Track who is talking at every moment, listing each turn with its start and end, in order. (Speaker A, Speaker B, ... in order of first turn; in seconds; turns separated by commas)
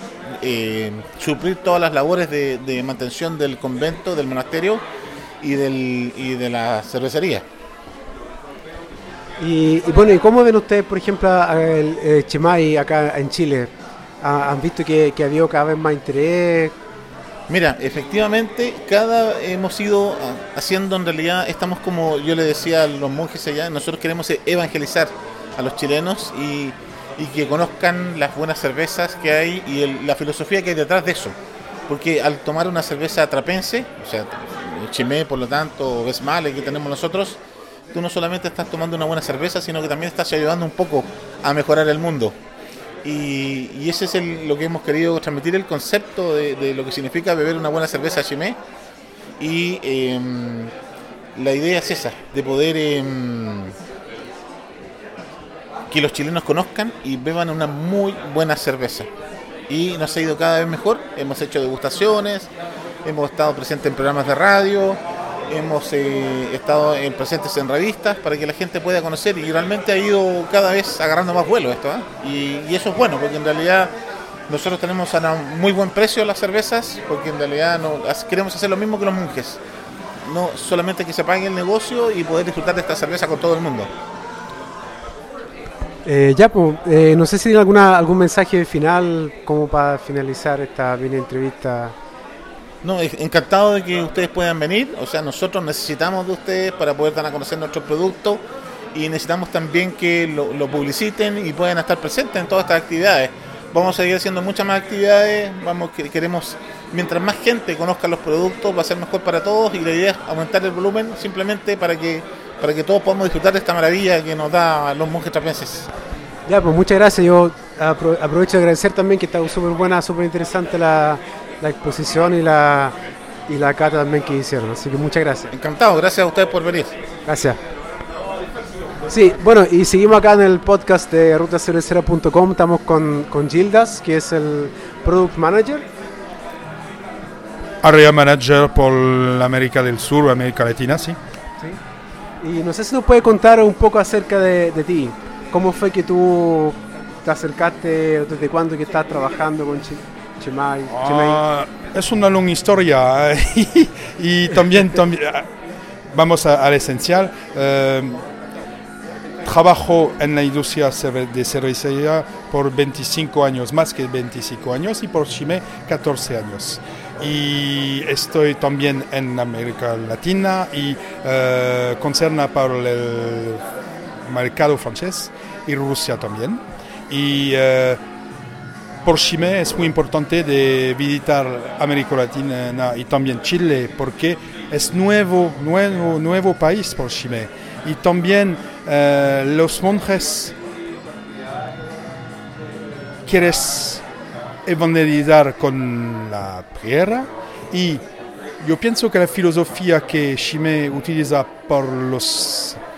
Speaker A: 0.4-4.8, Speaker A: 5.4-7.4, Speaker B: 9.4-16.7, Speaker A: 17.5-31.4, Speaker A: 31.9-37.4, Speaker A: 37.9-42.4, Speaker A: 43.0-48.6, Speaker A: 49.4-50.7, Speaker A: 51.4-53.8, Speaker A: 55.9-59.1, Speaker A: 59.7-62.5, Speaker A: 63.0-73.9, Speaker A: 74.5-79.6, Speaker A: 80.2-83.9, Speaker B: 86.0-92.0, Speaker A: 92.8-115.9, Speaker B: 116.5-122.9, Speaker B: 123.5-125.5, Speaker A: 125.5-127.0, Speaker B: 127.2-127.6, Speaker B: 129.1-135.8, Speaker C: 137.8-141.2, Speaker B: 142.4-151.4, Speaker C: 150.9-155.5, Speaker C: 156.1-158.2, Speaker C: 159.4-173.6, Speaker C: 174.2-178.0, Speaker C: 179.0-190.5, Speaker C: 193.2-194.0, Speaker C: 194.7-198.0, Speaker C: 198.6-202.8